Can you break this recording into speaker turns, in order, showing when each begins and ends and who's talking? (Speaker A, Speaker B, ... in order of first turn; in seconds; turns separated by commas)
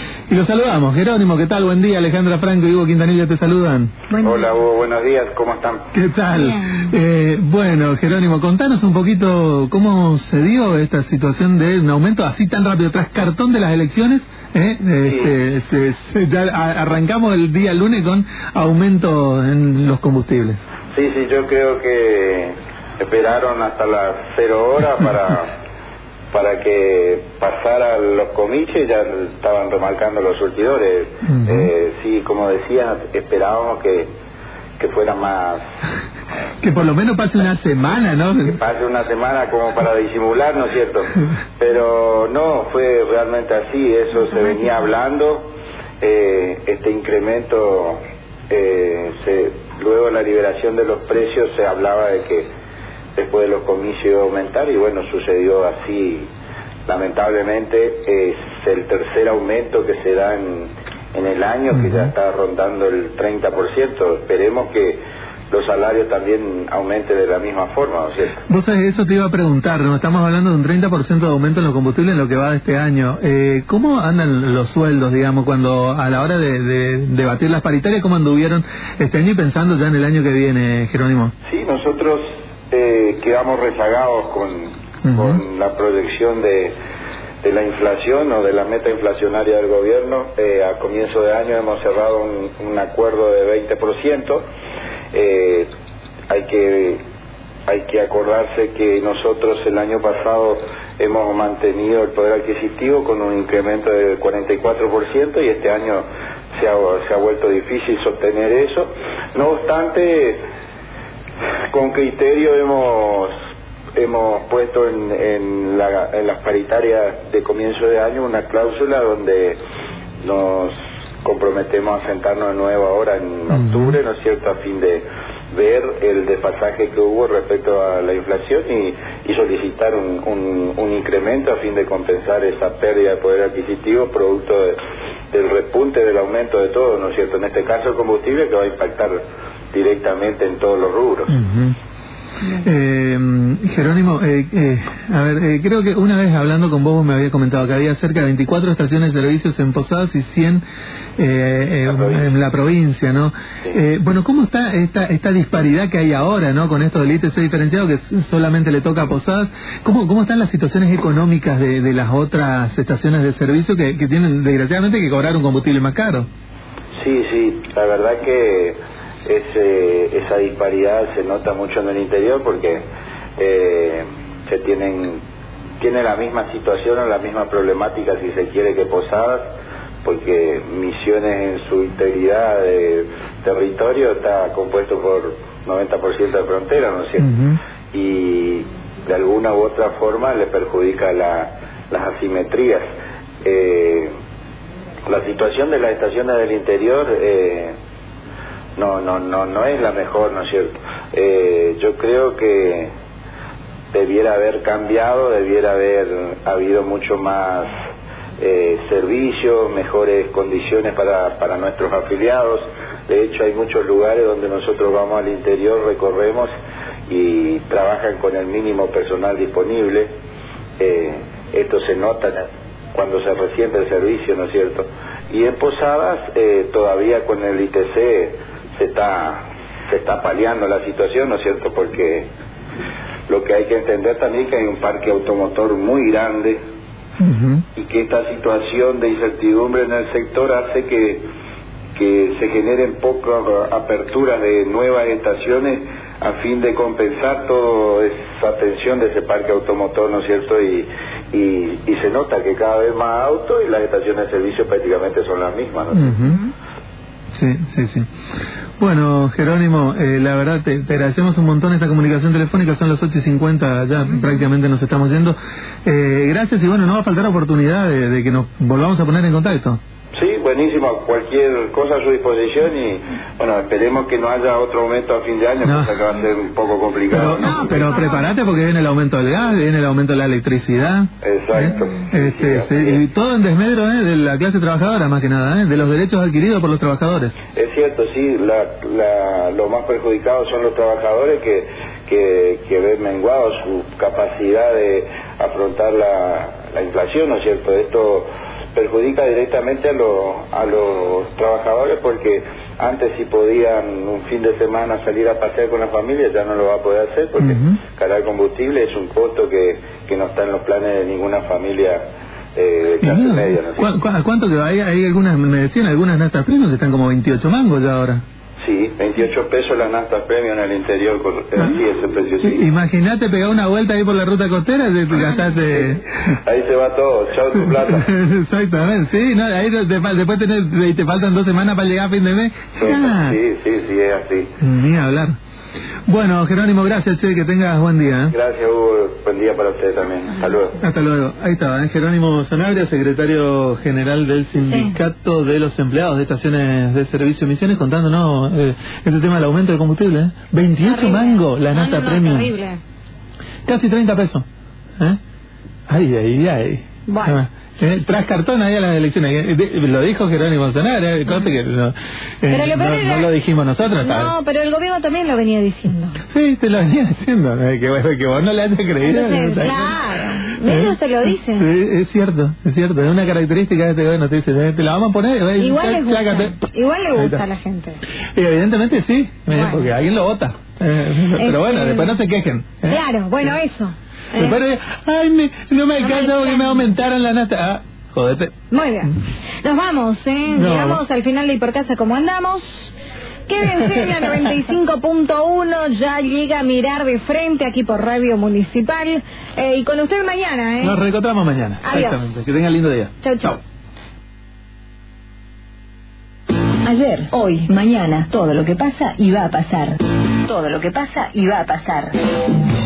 Speaker A: 0.3-4.0, Speaker B: 4.2-5.9, Speaker A: 5.9-20.6, Speaker C: 6.5-6.8, Speaker B: 15.0-15.3, Speaker B: 20.9-25.5, Speaker B: 26.3-34.1, Speaker A: 31.2-31.7, Speaker B: 34.8-35.6, Speaker A: 36.6-38.6, Speaker B: 38.4-48.0, Speaker B: 48.5-52.5, Speaker B: 53.1-56.3, Speaker B: 56.9-68.4, Speaker A: 61.7-62.1, Speaker A: 68.5-81.3, Speaker B: 81.5-86.7, Speaker A: 85.0-85.4, Speaker B: 87.4-94.4, Speaker B: 95.1-95.7, Speaker B: 96.3-97.0, Speaker B: 97.7-110.4, Speaker B: 111.7-113.3, Speaker B: 114.0-119.6, Speaker B: 120.2-134.8, Speaker A: 123.5-123.9, Speaker B: 135.3-139.2, Speaker B: 139.7-141.3, Speaker A: 141.3-141.8, Speaker A: 142.4-150.6, Speaker A: 151.2-166.3, Speaker B: 151.8-152.3, Speaker B: 167.0-172.8, Speaker B: 173.4-175.2, Speaker B: 175.8-179.4, Speaker B: 180.0-187.3, Speaker A: 187.2-187.6, Speaker B: 187.9-192.8, Speaker B: 193.4-194.1, Speaker B: 195.1-197.7, Speaker B: 198.8-202.9, Speaker B: 203.9-207.7, Speaker B: 208.4-216.5, Speaker B: 217.1-220.1, Speaker B: 220.8-232.3, Speaker B: 233.3-236.6, Speaker A: 237.2-237.6, Speaker B: 237.7-241.2, Speaker B: 241.9-256.2, Speaker A: 255.9-256.4, Speaker A: 257.3-258.1, Speaker A: 258.8-269.8, Speaker B: 270.1-277.9, Speaker A: 275.6-276.0, Speaker A: 277.1-287.3, Speaker C: 277.4-278.3, Speaker B: 281.2-283.0, Speaker B: 287.5-312.0, Speaker A: 307.4-307.8, Speaker B: 312.5-313.9, Speaker A: 313.0-318.2, Speaker B: 318.6-322.6, Speaker A: 322.4-326.3, Speaker B: 325.7-328.1, Speaker A: 327.9-333.4, Speaker B: 332.8-334.5, Speaker A: 334.6-335.3, Speaker A: 336.1-338.3, Speaker B: 338.3-340.8, Speaker A: 340.8-352.5, Speaker C: 344.6-344.9, Speaker C: 350.8-352.8, Speaker A: 353.6-354.4, Speaker A: 355.9-364.3, Speaker C: 357.1-357.4, Speaker C: 362.5-363.3, Speaker C: 364.0-366.2, Speaker A: 366.3-370.0, Speaker C: 369.0-371.7, Speaker A: 370.5-370.9, Speaker A: 371.6-376.6, Speaker C: 375.6-378.0, Speaker A: 377.1-377.4, Speaker A: 378.3-383.5, Speaker C: 379.5-379.9, Speaker C: 381.4-382.2, Speaker C: 382.9-384.6, Speaker A: 384.4-388.6, Speaker C: 386.0-386.8, Speaker C: 388.7-392.9, Speaker A: 390.5-391.0, Speaker C: 393.5-400.9, Speaker A: 400.8-403.6, Speaker C: 401.8-402.2, Speaker C: 403.2-403.6, Speaker D: 406.8-412.1